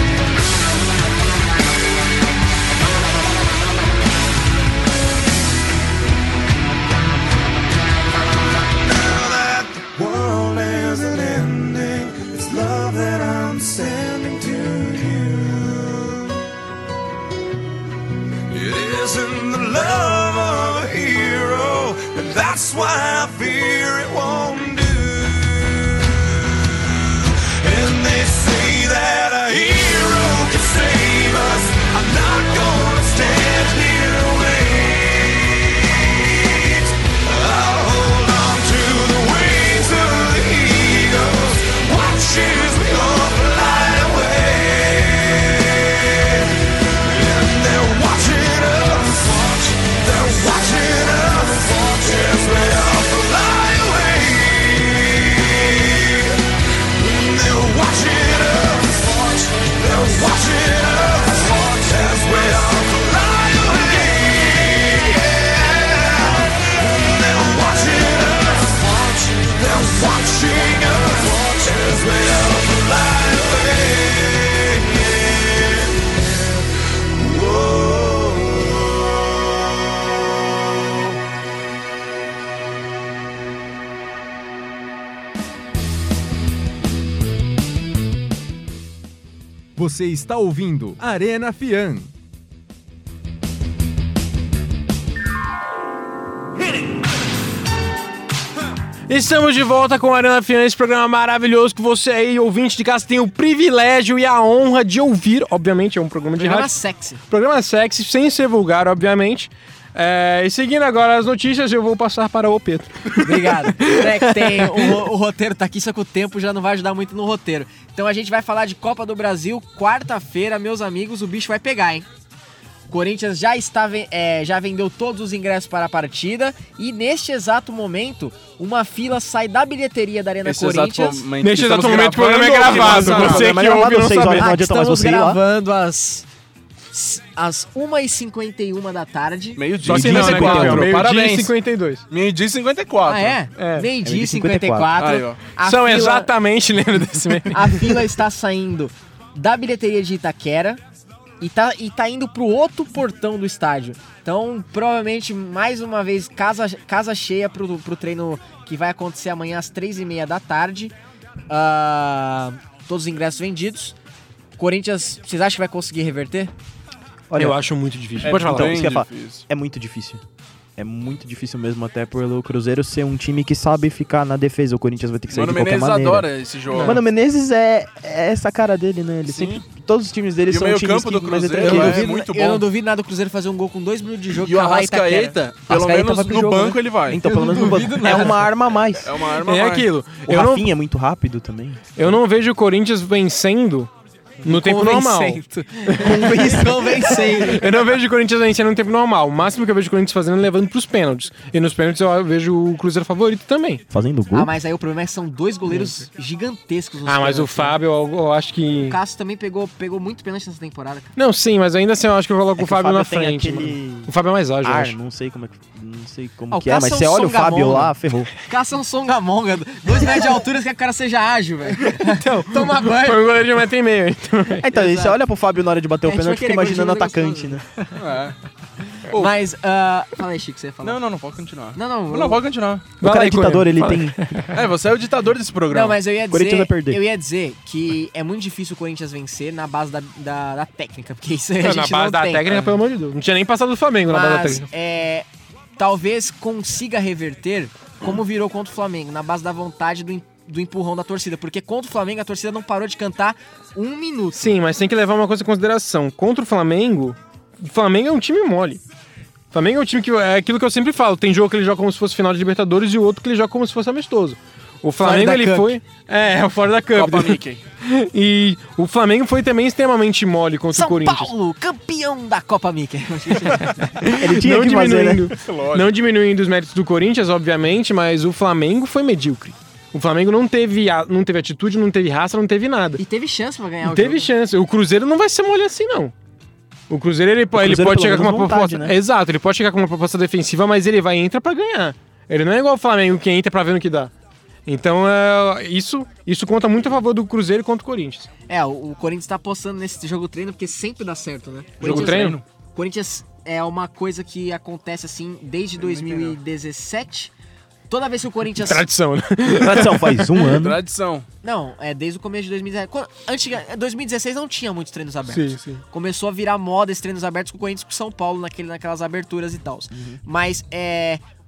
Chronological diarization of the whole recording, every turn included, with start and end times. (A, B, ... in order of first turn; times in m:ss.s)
0:08.8-0:16.4 A
0:18.5-0:26.0 A
0:27.4-1:19.1 A
1:29.8-1:32.1 B
1:39.1-1:55.0 C
1:46.4-1:47.2 D
1:53.2-2:02.0 D
2:02.9-2:11.3 D
2:10.4-2:13.5 E
2:11.4-2:14.5 C
2:12.8-2:15.4 F
2:14.2-2:16.3 D
2:16.9-2:19.6 D
2:19.6-2:21.5 E
2:19.8-2:21.0 F
2:19.8-2:22.0 C
2:22.1-2:23.4 E
2:23.0-2:26.3 D
2:23.6-2:23.9 C
2:24.0-2:25.0 F
2:25.0-2:25.4 E
2:25.6-2:28.0 C
2:27.5-2:30.8 D
2:31.4-2:40.9 D
2:41.5-2:44.0 D
2:44.6-2:46.5 D
2:47.3-2:47.6 F
2:47.3-2:48.9 C
2:48.2-2:50.2 F
2:48.2-2:49.4 E
2:50.8-2:56.3 F
2:55.3-2:57.0 E
2:56.8-3:02.0 F
2:59.3-2:59.6 E
3:00.5-3:02.6 E
3:01.6-3:08.5 D
3:04.3-3:07.2 E
3:07.1-3:09.2 F
3:09.0-3:09.9 E
3:09.3-3:10.7 C
3:10.3-3:12.1 F
3:12.0-3:13.9 C
3:14.4-3:16.3 C
3:14.4-3:17.6 D
3:16.0-3:17.1 F
3:17.1-3:23.8 C
3:23.9-3:24.5 F
3:24.3-3:27.8 D
3:25.7-3:26.0 C
3:27.0-3:29.0 C
3:28.8-3:31.1 D
3:31.2-3:35.0 C
3:32.6-3:38.3 F
3:36.5-3:43.2 D
3:41.9-3:44.6 C
3:44.6-3:47.6 F
3:44.7-3:45.2 D
3:46.0-3:47.9 D
3:48.0-3:48.4 E
3:49.1-3:51.0 D
3:50.8-3:52.9 E
3:51.7-3:52.4 D
3:53.0-3:54.6 C
3:53.0-3:54.3 F
3:54.5-3:56.0 E
3:55.7-4:02.7 D
3:56.3-3:57.0 F
4:01.6-4:04.7 C
4:04.1-4:14.5 D
4:14.3-4:18.8 C
4:19.5-4:31.3 C
4:25.0-4:25.8 D
4:26.9-4:27.6 E
4:30.7-4:33.8 D
4:33.6-4:43.0 C
4:34.2-4:35.3 F
4:35.4-4:35.9 E
4:43.0-4:44.3 D
4:43.8-4:46.1 C
4:46.9-4:54.1 C
4:47.5-4:49.0 F
4:54.6-4:58.3 C
4:58.5-5:07.3 D
5:01.8-5:02.4 C
5:01.8-5:02.4 E
5:05.8-5:06.4 E
5:07.9-5:08.8 D
5:08.6-5:10.6 C
5:09.5-5:10.8 F
5:10.4-5:11.3 E
5:11.4-5:21.2 D
5:15.3-5:15.8 C
5:19.9-5:20.2 F